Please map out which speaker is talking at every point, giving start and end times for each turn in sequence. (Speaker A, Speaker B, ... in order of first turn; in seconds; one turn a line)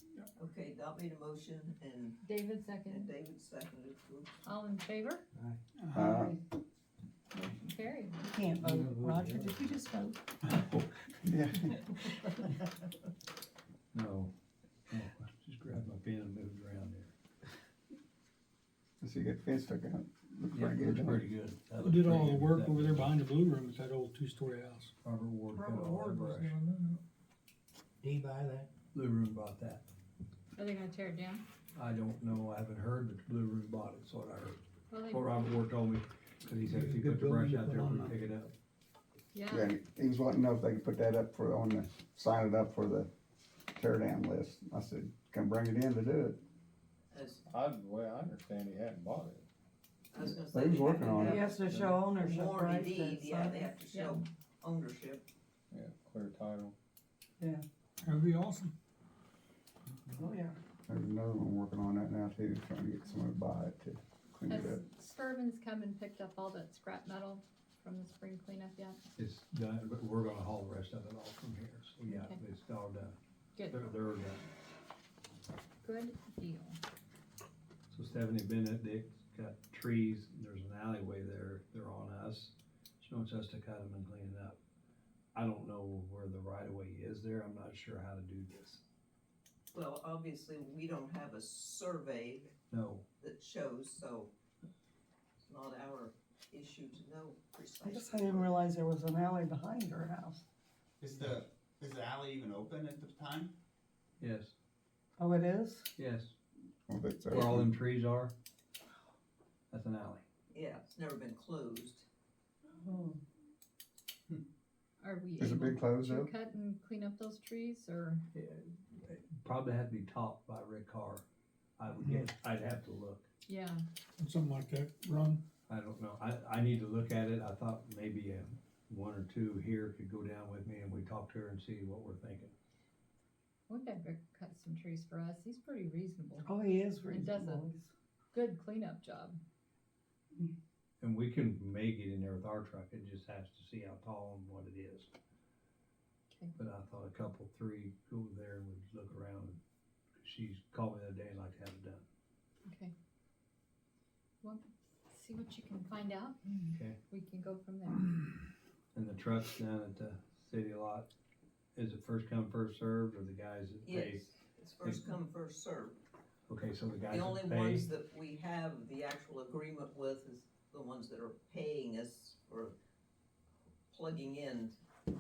Speaker A: 0.4-2.2
Speaker B: 2.2-3.1
Speaker A: 2.9-4.3
Speaker B: 4.5-5.2
Speaker C: 5.8-6.1
Speaker D: 5.9-6.3
Speaker B: 6.1-6.3
Speaker B: 7.4-8.2
Speaker E: 8.2-10.2
Speaker F: 8.7-9.5
Speaker D: 11.2-11.8
Speaker G: 13.9-14.3
Speaker G: 14.9-17.1
Speaker D: 19.0-21.2
Speaker G: 20.5-23.1
Speaker C: 21.8-24.9
Speaker G: 25.0-26.6
Speaker F: 25.6-27.0
Speaker F: 28.0-28.7
Speaker G: 28.9-29.9
Speaker B: 30.6-31.4
Speaker G: 31.8-34.6
Speaker B: 34.9-35.3
Speaker G: 35.1-38.5
Speaker C: 36.7-38.2
Speaker F: 37.0-37.4
Speaker B: 39.3-39.7
Speaker D: 39.5-43.1
Speaker D: 43.7-46.4
Speaker A: 47.1-47.4
Speaker H: 47.5-49.5
Speaker A: 50.1-55.3
Speaker D: 50.4-51.4
Speaker E: 51.2-53.8
Speaker H: 51.6-52.0
Speaker B: 53.9-54.2
Speaker H: 55.7-56.8
Speaker C: 58.0-58.7
Speaker E: 60.2-60.6
Speaker D: 60.9-64.8
Speaker B: 64.5-69.0
Speaker G: 69.2-73.2
Speaker B: 72.0-72.4
Speaker B: 73.6-73.9
Speaker G: 73.7-74.4
Speaker B: 75.8-76.8
Speaker G: 77.9-84.6
Speaker G: 85.3-88.8
Speaker A: 89.7-92.5
Speaker G: 92.7-93.0
Speaker A: 93.2-94.3
Speaker A: 95.4-98.5
Speaker E: 97.8-100.4
Speaker I: 101.0-103.3
Speaker G: 104.2-104.5
Speaker E: 105.2-105.9
Speaker G: 106.0-106.3
Speaker D: 106.9-107.7
Speaker G: 107.3-108.3
Speaker G: 109.7-110.2
Speaker A: 110.5-112.1
Speaker E: 112.8-113.2
Speaker B: 115.0-118.2
Speaker D: 115.4-116.3
Speaker G: 118.3-121.2
Speaker G: 121.8-123.3
Speaker B: 123.5-123.9
Speaker C: 124.2-125.4
Speaker G: 125.7-132.5
Speaker B: 133.7-136.5
Speaker E: 136.4-137.9
Speaker B: 137.1-137.7
Speaker B: 138.3-139.4
Speaker G: 141.0-145.1
Speaker G: 146.6-149.6
Speaker G: 150.2-152.1
Speaker B: 152.7-152.9
Speaker B: 154.4-158.3
Speaker G: 158.9-161.1
Speaker G: 161.8-164.3
Speaker A: 163.8-166.0
Speaker G: 164.8-165.1
Speaker G: 166.5-167.9
Speaker A: 167.1-172.7
Speaker A: 173.9-174.8